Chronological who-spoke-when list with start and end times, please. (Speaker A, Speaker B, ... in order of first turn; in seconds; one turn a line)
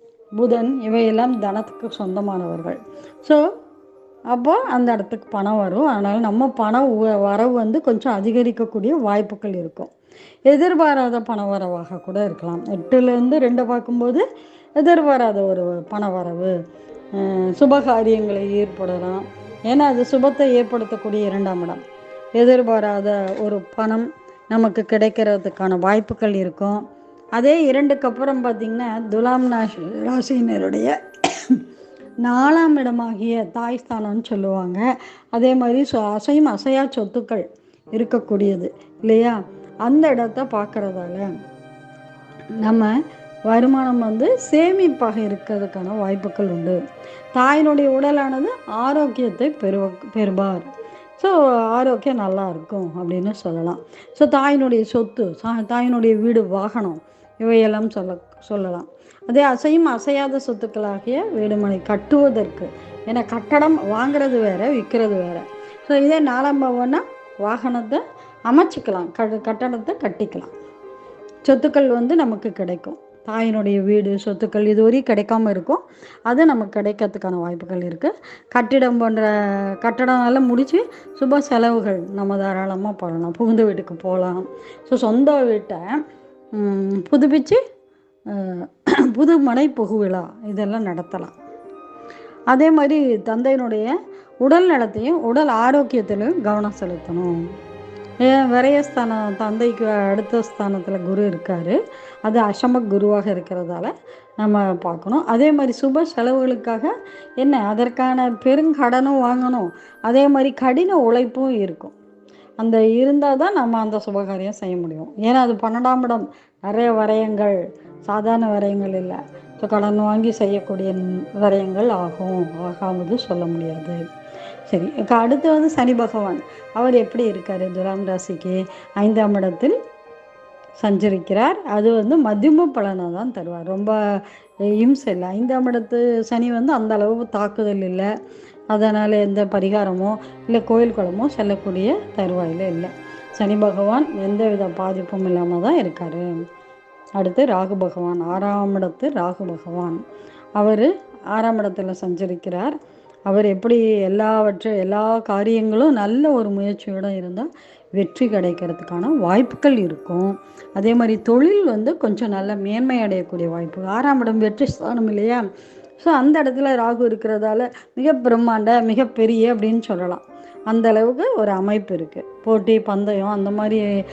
Speaker A: 0.4-3.5
Speaker A: 4.3-9.9
Speaker A: 10.5-14.2
Speaker A: 14.8-16.6
Speaker A: 17.1-21.8
Speaker A: 22.4-26.8
Speaker A: 27.4-31.6
Speaker A: 32.2-41.3
Speaker A: 42.6-43.0
Speaker A: 43.5-46.8
Speaker A: 47.3-70.5
Speaker A: 71.5-86.0
Speaker A: 86.5-87.6
Speaker A: 88.3-91.3
Speaker A: 92.5-97.4
Speaker A: 98.2-111.9
Speaker A: 112.6-124.0
Speaker A: 124.7-129.8
Speaker A: 130.8-134.0
Speaker A: 134.8-138.1
Speaker A: 138.7-146.3
Speaker A: 147.2-150.0
Speaker A: 150.6-152.8
Speaker A: 153.3-165.5
Speaker A: 166.0-173.9